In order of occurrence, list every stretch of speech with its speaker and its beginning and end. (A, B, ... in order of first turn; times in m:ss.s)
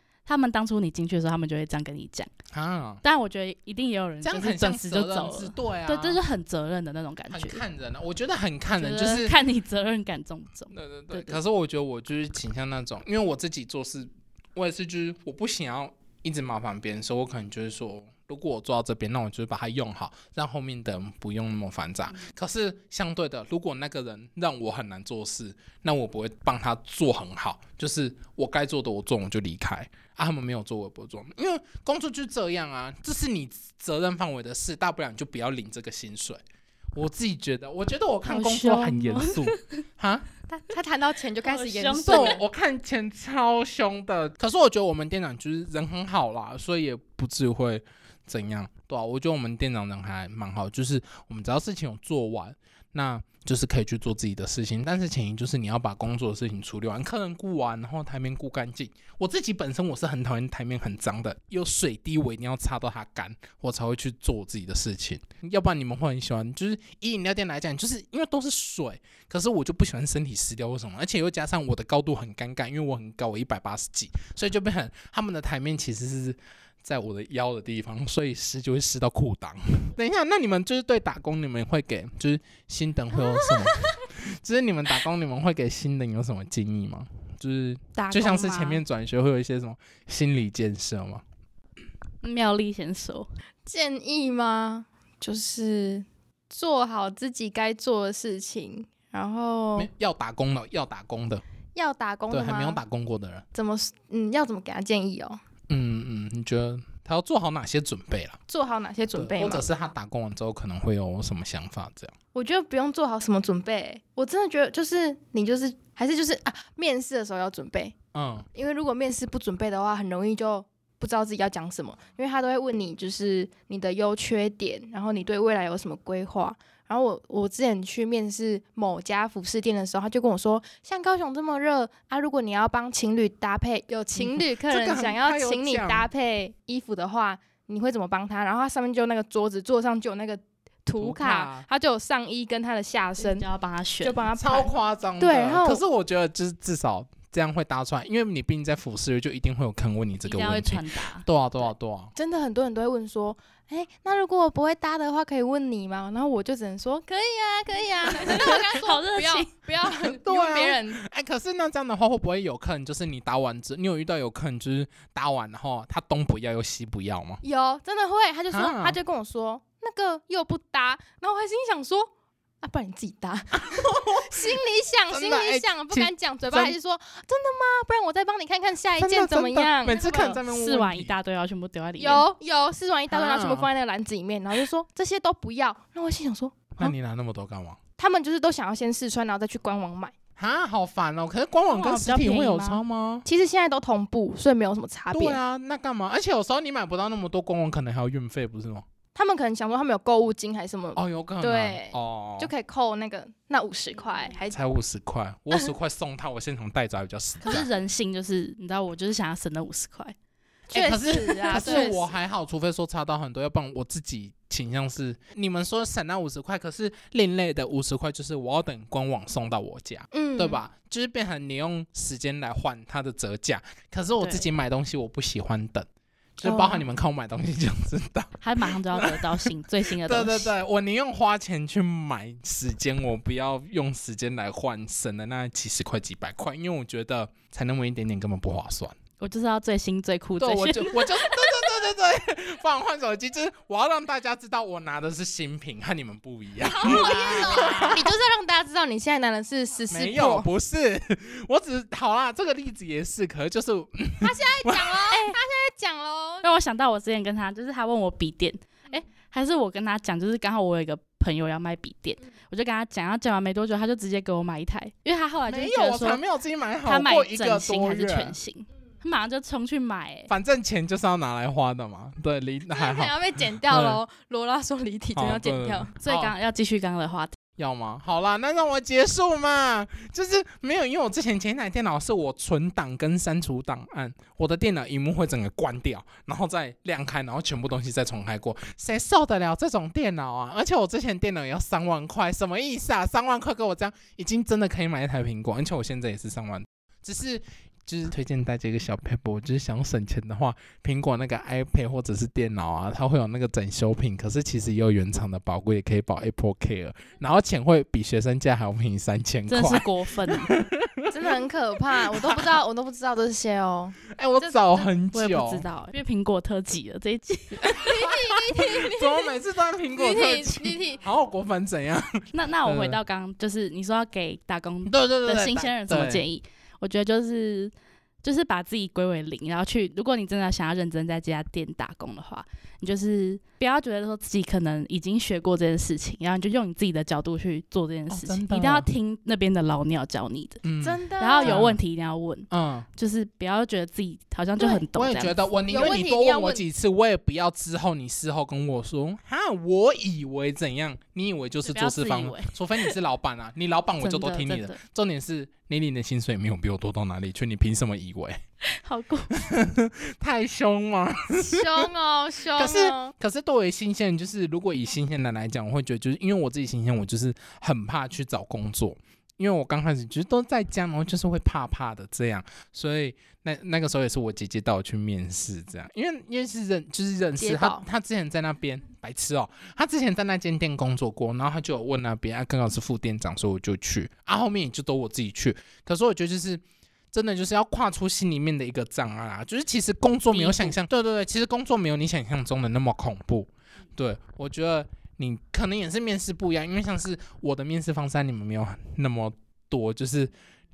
0:00.2-0:02.3 A
0:02.5-0:03.0 B
0:03.0-0:07.6 A
0:04.2-0:06.2 B
0:07.3-0:09.4 B
0:08.8-0:11.4 A
0:10.7-0:36.4 B
0:36.9-0:40.3 B
0:38.3-0:39.6 A
0:40.5-0:42.4 C
0:41.4-0:42.4 A
0:42.0-1:31.2 B
1:28.0-1:28.8 A
1:32.2-1:33.3 A
1:33.6-1:39.9 C
1:39.8-1:41.4 B
1:41.7-1:42.8 C
1:42.3-1:43.4 B
1:43.5-1:45.4 C
1:45.7-1:48.4 B
1:48.5-1:49.6 C
1:49.1-1:52.1 B
1:52.3-1:57.9 C
1:58.1-1:58.5 B
1:58.5-2:23.4 C
2:14.1-2:16.1 B
2:21.0-2:21.6 B
2:23.2-2:24.2 A
2:24.0-2:25.8 C
2:24.4-2:32.1 B
2:30.2-2:31.7 A
2:32.1-2:41.0 C
2:38.2-2:39.5 A
2:39.8-2:47.4 B
2:47.4-2:52.1 C
2:48.5-2:49.0 B
2:52.6-3:00.4 C
2:53.5-2:56.7 B
2:59.0-3:01.1 B
2:59.9-3:02.2 A
3:02.0-3:06.9 C
3:03.1-3:03.7 B
3:06.7-3:07.8 B
3:08.0-3:10.1 C
3:10.4-3:13.2 B
3:11.7-3:12.8 A
3:13.2-3:15.4 C
3:15.1-3:18.8 B
3:19.1-3:24.6 C
3:21.0-3:22.5 B
3:24.5-3:27.7 B
3:27.4-3:30.1 A
3:30.7-3:32.0 C
3:30.7-3:45.9 B
3:31.1-3:32.0 A
3:40.1-3:40.6 C
3:44.2-3:44.4 A
3:46.4-3:59.0 B
3:46.4-3:46.8 C
3:48.4-3:50.5 A
3:59.2-4:01.7 A
4:00.4-4:08.1 B
4:06.6-4:10.5 C
4:06.8-4:08.0 A
4:09.9-4:15.1 B
4:14.2-4:16.4 C
4:16.4-4:26.2 A
4:25.5-4:28.4 B
4:26.8-4:30.3 A
4:30.3-4:34.0 B
4:32.7-4:35.9 C
4:35.1-4:36.3 B
4:35.9-4:37.4 A
4:37.6-5:11.3 B
5:09.5-5:10.5 A
5:11.1-5:14.9 C
5:11.9-5:12.6 B
5:14.0-5:15.6 B
5:15.1-5:18.0 A
5:17.5-5:23.0 B
5:17.7-5:19.3 C
5:19.9-5:21.0 C
5:22.3-5:27.7 A
5:24.8-5:26.2 B
5:28.2-5:40.6 A
5:38.1-5:38.9 B
5:40.6-5:41.8 B
5:40.8-5:41.6 C
5:41.2-5:45.4 A
5:42.5-5:42.9 B
5:44.9-5:58.4 B
5:45.7-5:46.6 C
5:51.6-5:53.0 A
5:54.0-5:54.8 A
5:58.7-5:59.4 A
5:59.3-6:01.9 B
6:01.3-6:03.1 C
6:02.5-6:40.3 B
6:17.4-6:17.8 C
6:30.3-6:30.8 A